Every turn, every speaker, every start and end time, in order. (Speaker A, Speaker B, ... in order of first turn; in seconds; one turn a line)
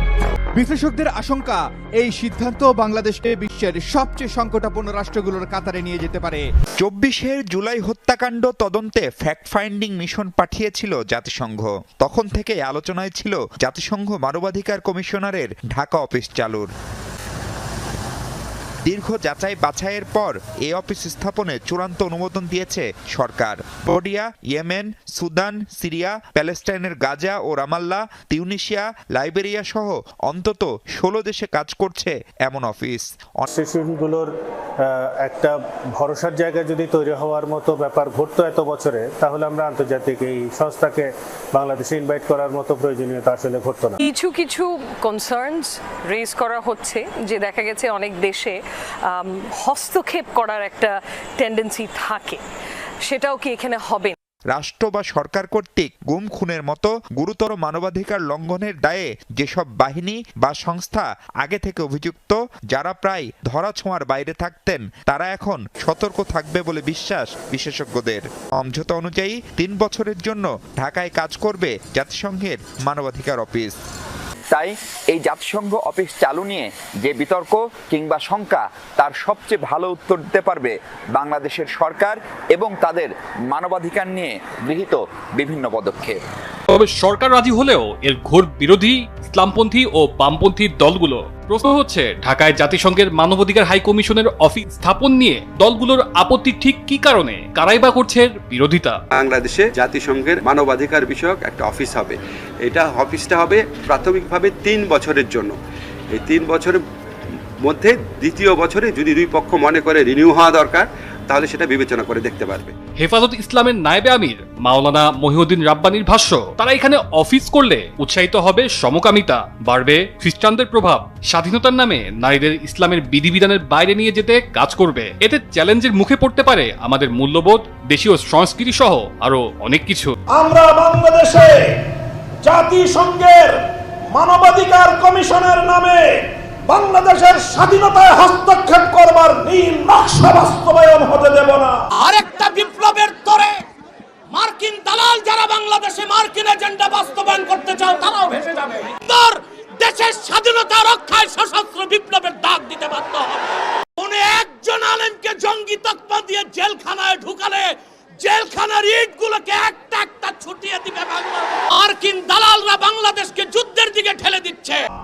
Speaker A: 0.6-6.5
Speaker B: 6.8-16.7
Speaker B: 18.9-33.5
Speaker C: 33.5-34.3
Speaker C: 34.9-44.0
Speaker D: 44.0-52.4
Speaker D: 53.1-54.1
Speaker B: 54.5-73.8
Speaker E: 74.5-86.2
Speaker F: 86.7-99.0
Speaker G: 99.1-105.6
Speaker G: 106.1-106.8
Speaker G: 107.6-112.7
Speaker F: 113.0-130.2
Speaker H: 130.3-131.6
Speaker H: 132.4-133.6
Speaker H: 134.1-136.1
Speaker H: 136.7-141.8
Speaker I: 142.0-143.6
Speaker I: 144.3-153.5
Speaker I: 154.0-164.8